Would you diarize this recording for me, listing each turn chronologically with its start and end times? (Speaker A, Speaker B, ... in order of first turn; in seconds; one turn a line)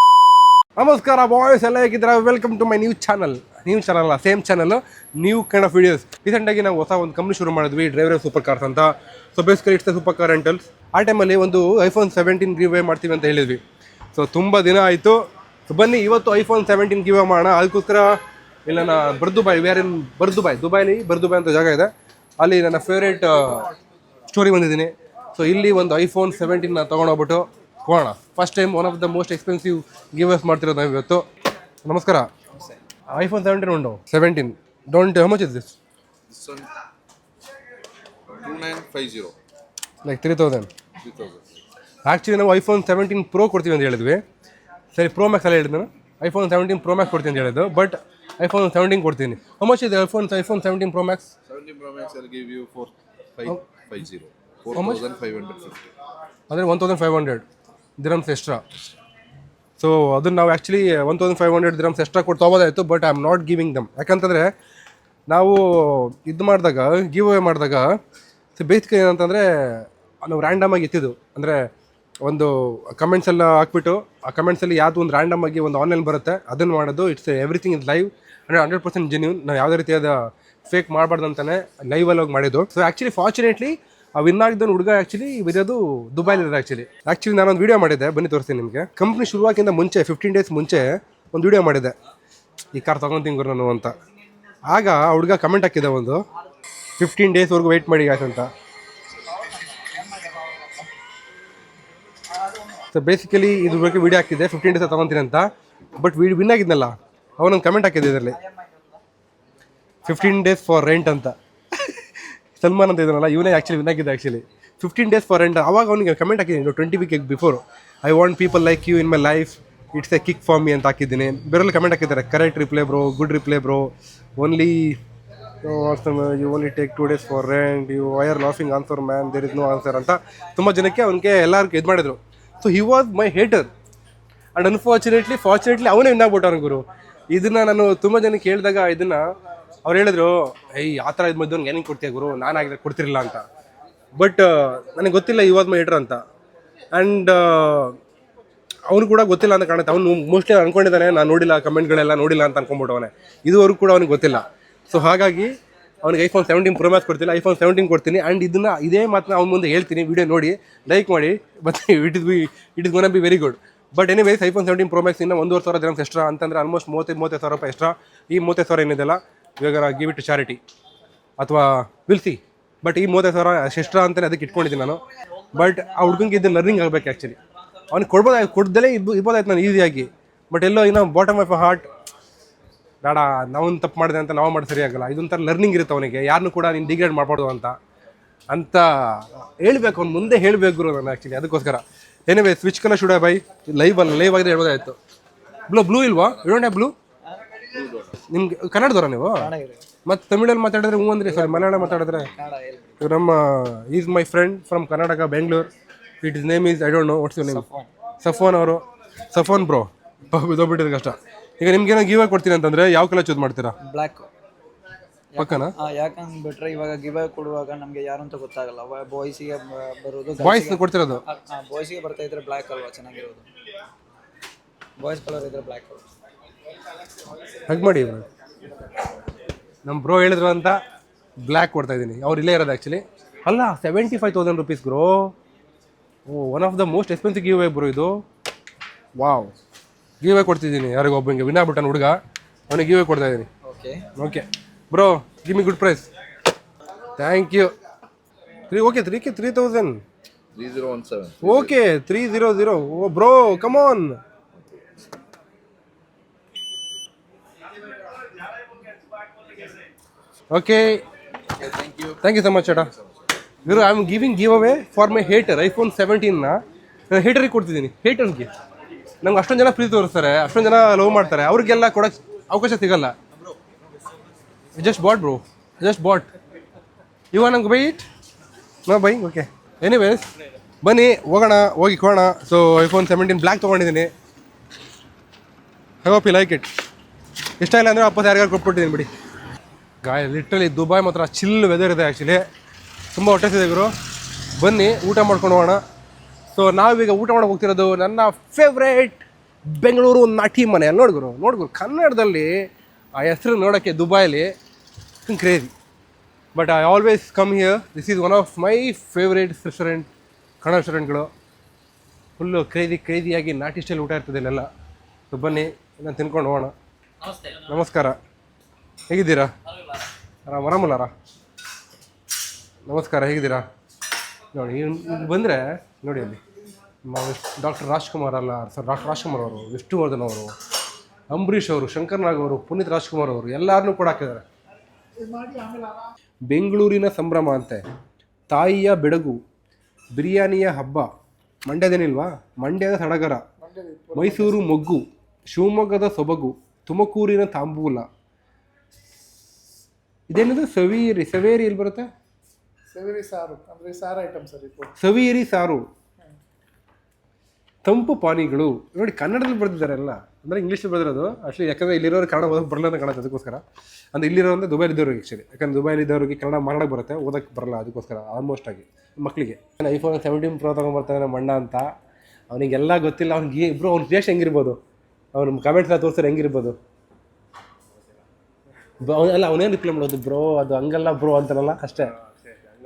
Speaker A: 0.8-13.6
Speaker A: 14.1-23.7
Speaker A: 24.3-31.2
Speaker A: 31.8-32.3
Speaker A: 33.1-35.8
Speaker B: 36.3-36.7
Speaker B: 38.3-39.4
Speaker A: 40.0-40.7
Speaker B: 41.0-41.6
Speaker A: 42.0-44.2
Speaker A: 44.9-51.3
Speaker B: 51.5-55.8
Speaker A: 54.7-55.0
Speaker A: 56.5-57.5
Speaker A: 58.0-58.6
Speaker A: 59.8-64.5
Speaker A: 65.3-67.9
Speaker A: 68.5-71.7
Speaker A: 72.2-92.0
Speaker A: 92.7-93.9
Speaker A: 94.7-96.2
Speaker A: 97.0-98.5
Speaker C: 99.3-100.7
Speaker A: 102.8-108.4
Speaker A: 110.0-125.0
Speaker A: 125.6-133.7
Speaker A: 134.5-139.2
Speaker A: 139.8-143.4
Speaker A: 144.2-146.2
Speaker A: 146.9-148.0
Speaker A: 148.9-155.5
Speaker A: 156.0-170.6
Speaker A: 171.4-177.4
Speaker A: 177.9-181.8
Speaker A: 183.0-187.8
Speaker A: 188.5-195.0
Speaker A: 195.7-196.9
Speaker B: 197.7-198.1
Speaker A: 198.2-199.5
Speaker C: 199.3-199.8
Speaker A: 200.0-202.3
Speaker C: 201.2-203.0
Speaker A: 203.0-207.7
Speaker C: 207.4-207.9
Speaker A: 208.2-213.8
Speaker C: 213.8-214.3
Speaker C: 215.3-223.5
Speaker A: 215.4-215.7
Speaker A: 220.4-221.2
Speaker C: 225.0-226.0
Speaker A: 227.7-228.3
Speaker A: 229.8-230.8
Speaker A: 231.4-235.3
Speaker A: 236.3-238.2
Speaker A: 239.2-239.5
Speaker A: 240.2-242.2
Speaker A: 242.7-243.5
Speaker C: 243.6-244.0
Speaker A: 244.2-246.1
Speaker A: 247.2-247.7
Speaker A: 248.7-250.0
Speaker B: 250.5-251.8
Speaker A: 251.4-254.2
Speaker A: 260.5-261.0
Speaker B: 261.6-262.2
Speaker A: 262.2-262.9
Speaker A: 263.6-266.6
Speaker A: 267.1-268.5
Speaker A: 269.2-273.1
Speaker A: 274.8-276.3
Speaker A: 277.3-278.0
Speaker A: 278.9-280.3
Speaker A: 280.8-284.1
Speaker A: 286.0-286.7
Speaker A: 287.6-289.1
Speaker A: 290.0-292.4
Speaker A: 293.1-295.8
Speaker A: 296.5-304.5
Speaker A: 305.2-305.7
Speaker A: 306.5-310.1
Speaker A: 310.6-311.3
Speaker A: 312.4-314.7
Speaker A: 315.3-316.7
Speaker A: 317.4-318.2
Speaker A: 319.1-319.5
Speaker A: 320.4-321.1
Speaker A: 322.9-323.6
Speaker A: 324.5-326.4
Speaker A: 327.1-330.5
Speaker A: 331.3-334.4
Speaker A: 335.4-335.8
Speaker D: 335.4-335.8
Speaker A: 336.5-337.8
Speaker A: 338.5-339.4
Speaker A: 340.1-341.1
Speaker A: 341.6-343.4
Speaker D: 343.6-344.6
Speaker A: 344.1-348.1
Speaker A: 350.3-352.1
Speaker D: 352.9-354.9
Speaker A: 354.9-355.9
Speaker A: 357.8-371.9
Speaker A: 372.5-374.8
Speaker A: 375.3-376.8
Speaker A: 379.0-382.1